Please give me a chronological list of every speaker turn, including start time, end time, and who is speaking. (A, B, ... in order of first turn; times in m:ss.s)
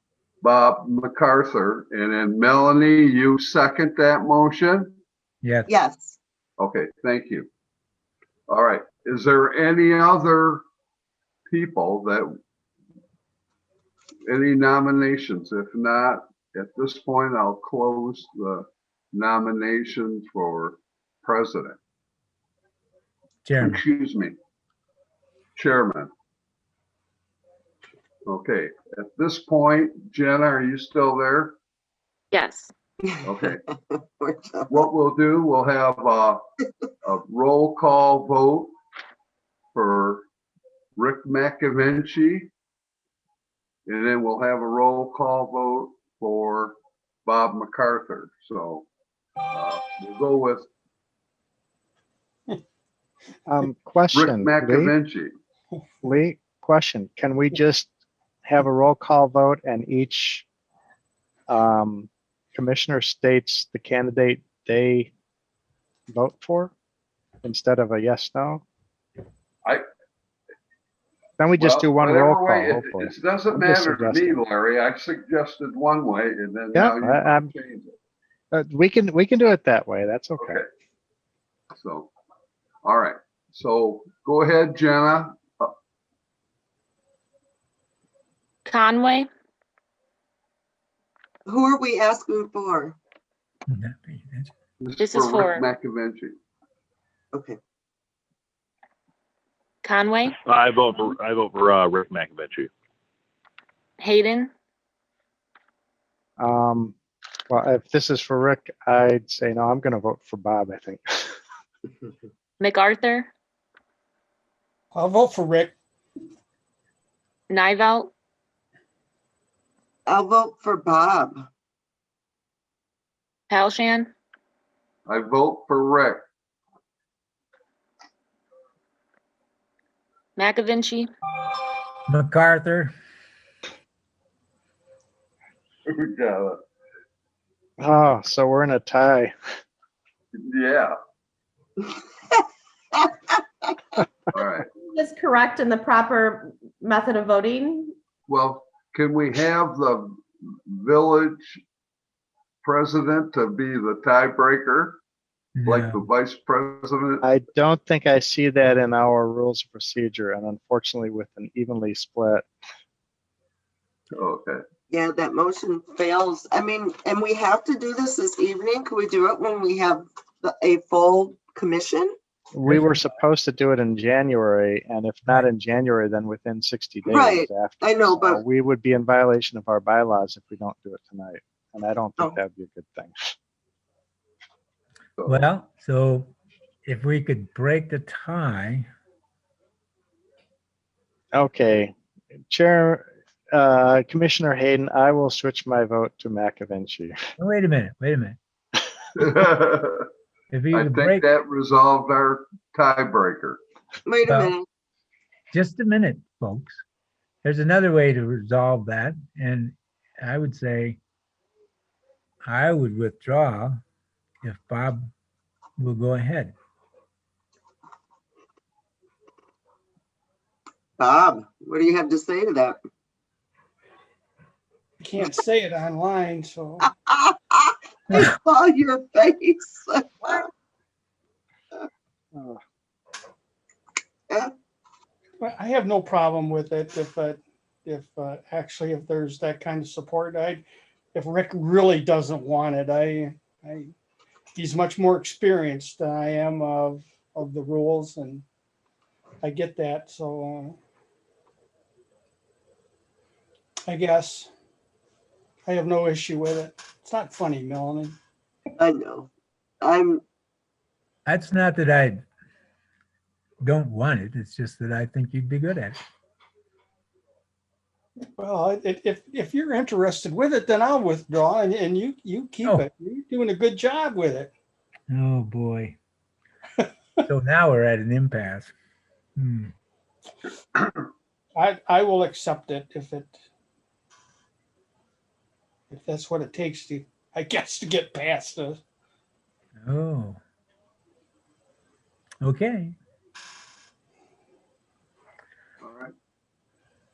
0:00.4-0:04.9 A
0:05.4-0:05.7 B
0:05.7-0:06.2 C
0:06.6-0:07.5 A
0:08.5-0:10.6 A
0:11.5-0:12.3 A
0:14.3-0:21.8 A
0:23.4-0:23.8 B
0:23.6-0:24.3 A
0:25.6-0:26.1 A
0:28.3-0:31.6 A
0:32.3-0:32.7 D
0:33.0-0:34.9 C
0:33.2-0:33.6 A
0:34.7-0:36.4 A
0:37.0-0:38.7 A
0:39.7-0:40.3 A
0:41.0-0:42.5 A
0:43.9-0:48.9 A
0:49.5-0:50.7 A
0:53.5-0:54.9 E
0:54.1-0:55.3 A
0:56.0-0:57.9 E
0:58.4-1:00.4 E
1:01.5-1:05.1 E
1:06.1-1:06.7 E
1:07.4-1:08.6 E
1:11.4-1:14.4 E
1:11.6-1:17.9 A
1:16.7-1:17.5 E
1:18.5-1:20.6 E
1:20.4-1:20.6 A
1:21.8-1:22.1 A
1:22.8-1:25.7 A
1:28.7-1:29.3 D
1:31.5-1:33.0 C
1:33.7-1:34.5 B
1:34.8-1:36.4 A
1:35.0-1:35.7 D
1:37.3-1:37.6 C
1:39.8-1:40.4 D
1:40.4-1:42.7 F
1:44.0-1:44.5 D
1:46.4-1:47.0 E
1:47.5-1:51.3 E
1:52.6-1:53.3 D
1:54.9-1:55.7 G
1:57.5-1:58.1 D
2:00.1-2:01.5 C
2:03.5-2:04.1 D
2:05.1-2:06.2 A
2:10.4-2:11.1 D
2:12.1-2:12.9 B
2:15.9-2:16.6 A
2:17.8-2:19.3 E
2:20.4-2:21.0 A
2:22.3-2:23.4 C
2:24.3-2:24.7 A
2:24.8-2:27.9 H
2:28.3-2:31.6 A
2:32.6-2:35.0 A
2:35.6-2:36.0 B
2:35.6-2:37.2 A
2:37.2-2:42.5 E
2:44.2-2:44.6 A
2:44.9-2:52.2 C
2:52.5-3:03.1 E
2:57.0-2:58.4 C
3:05.2-3:05.5 A
3:05.3-3:06.3 B
3:06.8-3:08.9 B
3:11.3-3:11.9 E
3:12.5-3:17.2 E
3:17.4-3:18.4 B
3:19.2-3:20.0 A
3:20.5-3:21.3 B
3:20.7-3:23.6 A
3:24.1-3:24.6 C
3:24.3-3:24.5 B
3:25.5-3:26.8 B
3:27.4-3:31.0 B
3:32.4-3:33.8 B
3:34.4-3:35.1 B
3:35.8-3:36.6 B
3:41.0-3:42.8 C
3:45.0-3:46.9 G
3:46.8-3:50.5 C
3:52.4-3:52.6 E
3:54.3-3:54.5 C
3:55.4-4:03.9 G
4:04.6-4:08.4 G
4:09.4-4:10.8 G
4:13.9-4:14.5 G
4:15.7-4:18.2 G
4:18.8-4:20.2 C
4:21.3-4:22.2 B
4:23.6-4:26.0 B
4:28.4-4:34.5 G
4:35.1-4:36.0 B
4:37.3-4:38.7 B
4:39.4-4:39.7 B
4:41.6-4:43.4 G
4:45.9-4:48.8 G
4:49.8-4:50.4 B
4:52.4-4:53.0 B
4:55.8-4:56.1 A